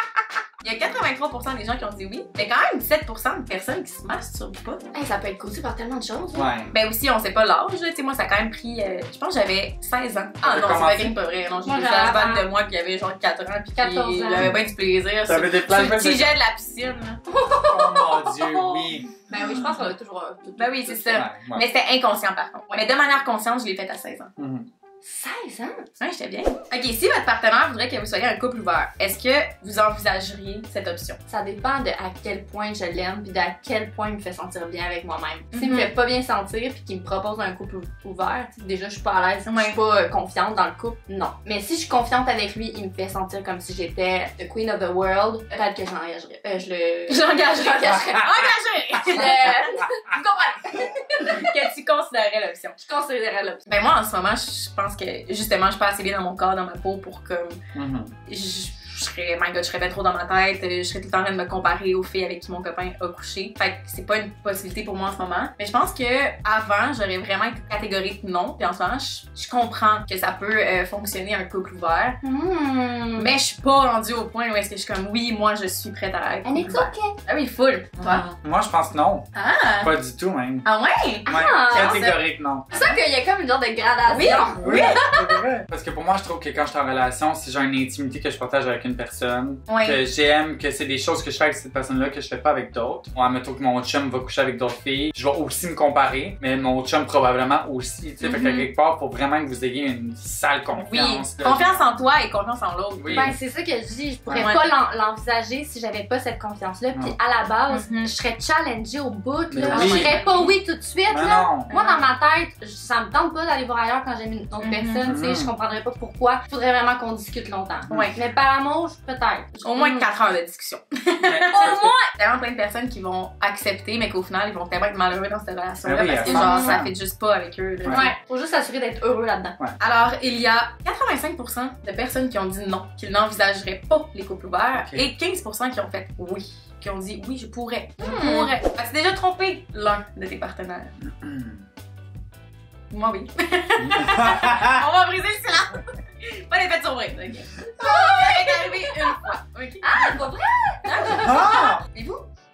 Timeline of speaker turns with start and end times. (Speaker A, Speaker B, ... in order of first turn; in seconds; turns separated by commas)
Speaker A: 0.6-4.9, Speaker B: 4.9-6.5, Speaker C: 6.3-6.7, Speaker A: 6.7-17.2, Speaker C: 10.4-11.1, Speaker B: 11.6-12.4, Speaker B: 13.8-14.5, Speaker C: 15.2-16.4, Speaker B: 17.3-18.3, Speaker C: 17.7-19.9, Speaker A: 18.3-18.9, Speaker B: 19.2-21.2, Speaker A: 20.6-24.3, Speaker C: 21.1-21.6, Speaker C: 24.4-24.7, Speaker B: 25.0-25.8, Speaker A: 26.0-31.2, Speaker B: 31.3-48.3, Speaker A: 35.5-35.9, Speaker A: 39.5-39.8, Speaker A: 47.1-49.8, Speaker B: 49.1-51.5, Speaker A: 51.2-52.8, Speaker B: 52.8-53.6, Speaker A: 53.7-57.6, Speaker C: 57.7-58.1, Speaker A: 58.3-72.2, Speaker B: 72.2-73.3, Speaker A: 73.2-78.3, Speaker B: 76.4-77.1, Speaker C: 78.0-79.3, Speaker A: 79.3-79.9, Speaker C: 79.8-80.7, Speaker A: 80.6-82.2, Speaker B: 81.2-82.1, Speaker C: 81.3-82.9, Speaker B: 82.7-85.2, Speaker A: 84.0-85.1, Speaker C: 84.6-102.0, Speaker A: 89.7-90.0, Speaker A: 98.2-98.7, Speaker A: 100.7-103.3, Speaker C: 103.0-103.4, Speaker B: 103.1-120.1, Speaker C: 104.2-104.5, Speaker A: 104.3-104.7, Speaker A: 107.7-108.1, Speaker C: 109.5-110.2, Speaker A: 109.7-110.6, Speaker C: 111.1-111.7, Speaker A: 111.7-112.1, Speaker A: 114.6-115.0, Speaker C: 115.0-115.5, Speaker C: 117.9-118.1, Speaker A: 117.9-118.2, Speaker A: 119.6-128.1, Speaker C: 121.2-121.9, Speaker B: 121.5-122.1, Speaker C: 125.8-126.9, Speaker B: 126.2-126.8, Speaker C: 127.8-128.1, Speaker B: 127.9-129.6, Speaker A: 129.8-140.9, Speaker C: 134.7-135.1, Speaker B: 138.0-138.5, Speaker C: 141.2-141.6, Speaker A: 142.9-150.2, Speaker C: 143.8-144.8, Speaker B: 147.7-149.1, Speaker B: 149.8-151.5, Speaker A: 150.8-152.2, Speaker C: 151.1-151.8